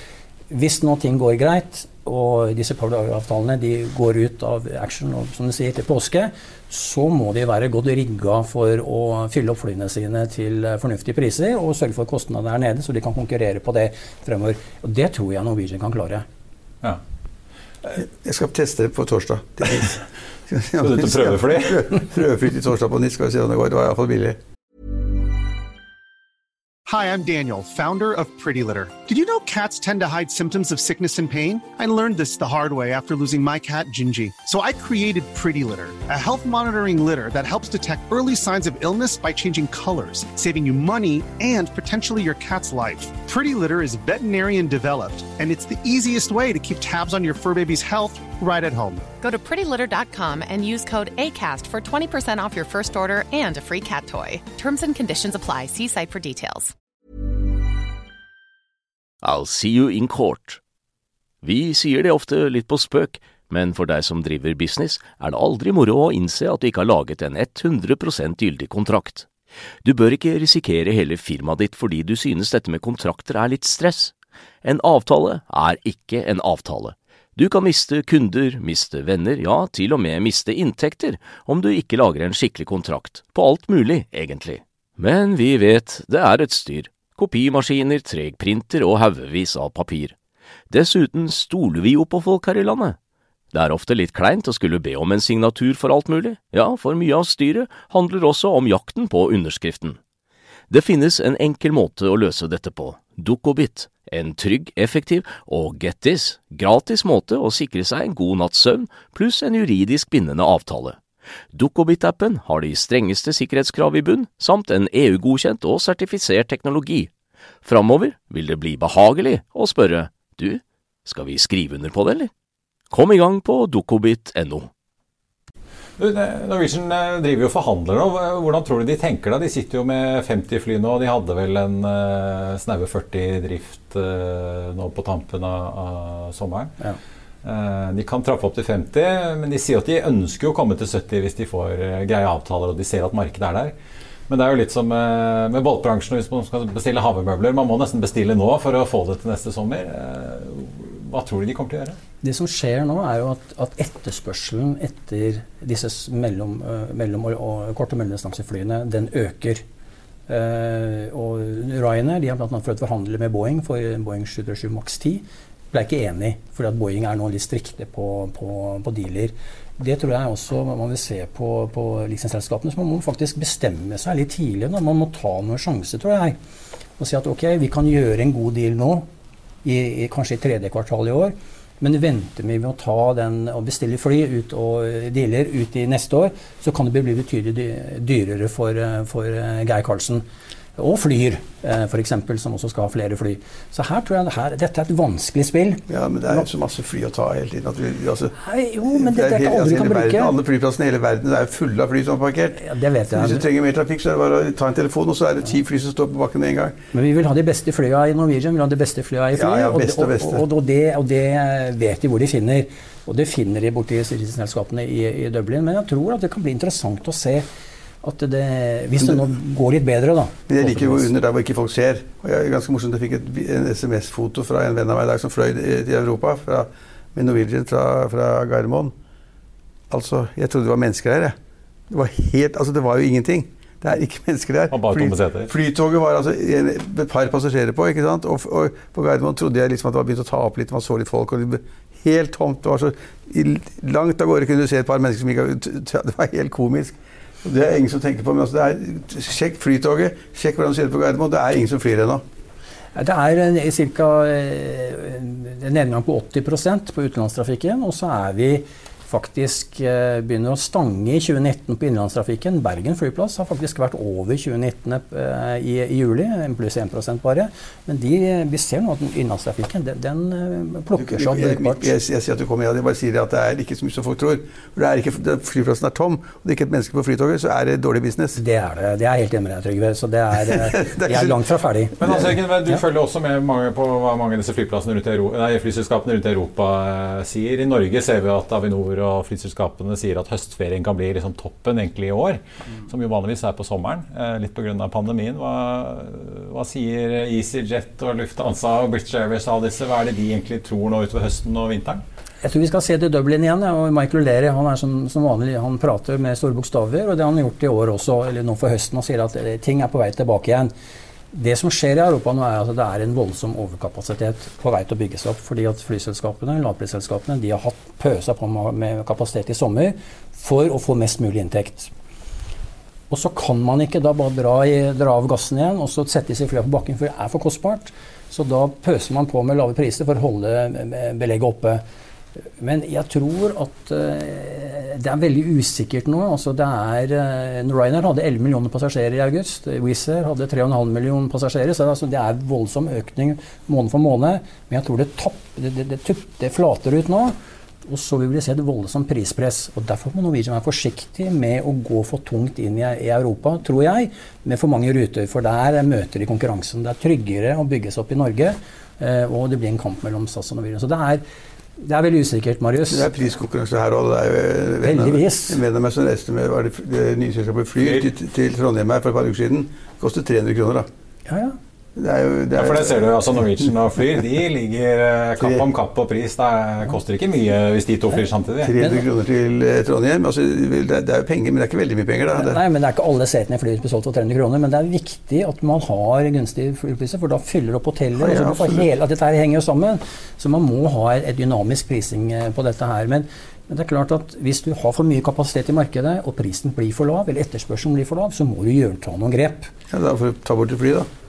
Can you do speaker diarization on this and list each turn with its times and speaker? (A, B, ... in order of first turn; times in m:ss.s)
0:00.5-0:16.2 A
0:17.8-0:24.4 B
0:20.8-0:22.0 C
0:26.9-0:49.0 D
0:49.2-0:56.7 E
0:59.2-1:00.6 F
1:01.4-1:09.3 F
1:09.8-1:30.2 F
1:30.7-1:33.0 F
1:33.5-1:40.0 F
1:40.7-1:51.0 F
1:51.5-1:57.1 F
1:57.6-2:02.3 F
2:02.9-2:04.7 F
2:06.0-2:16.8 C
2:17.4-2:23.7 C
2:24.3-2:32.0 C
2:32.2-2:39.6 A
2:40.3-2:56.4 A
2:57.0-2:59.1 A
2:59.6-3:10.2 A
3:10.8-3:16.5 A
3:15.9-3:26.8 B
3:18.4-3:20.4 A
3:22.6-3:23.5 A
3:26.9-3:37.5 A
3:29.3-3:30.4 B
3:38.0-3:41.1 A
3:40.5-3:49.0 B
3:49.9-3:51.4 B
3:51.9-4:12.2 B
3:54.7-3:55.5 C
4:13.0-4:32.0 A
4:31.0-4:38.4 B
4:38.4-4:42.0 A
4:40.4-4:41.4 B
4:42.0-5:02.0 C
4:42.0-4:42.3 B
5:02.4-5:10.7 A
5:11.3-5:21.9 A
5:23.1-5:31.8 A
5:32.6-5:47.4 A
5:47.9-6:01.2 A
6:01.8-6:03.1 A
6:02.9-6:10.9 B
6:04.8-6:05.6 A
6:11.3-6:11.6 A
6:12.0-6:13.1 B
6:12.6-6:18.8 C
6:15.4-6:15.6 B
6:18.6-6:22.6 B
6:22.4-6:39.7 A
6:28.2-6:28.9 B
6:39.9-6:41.1 B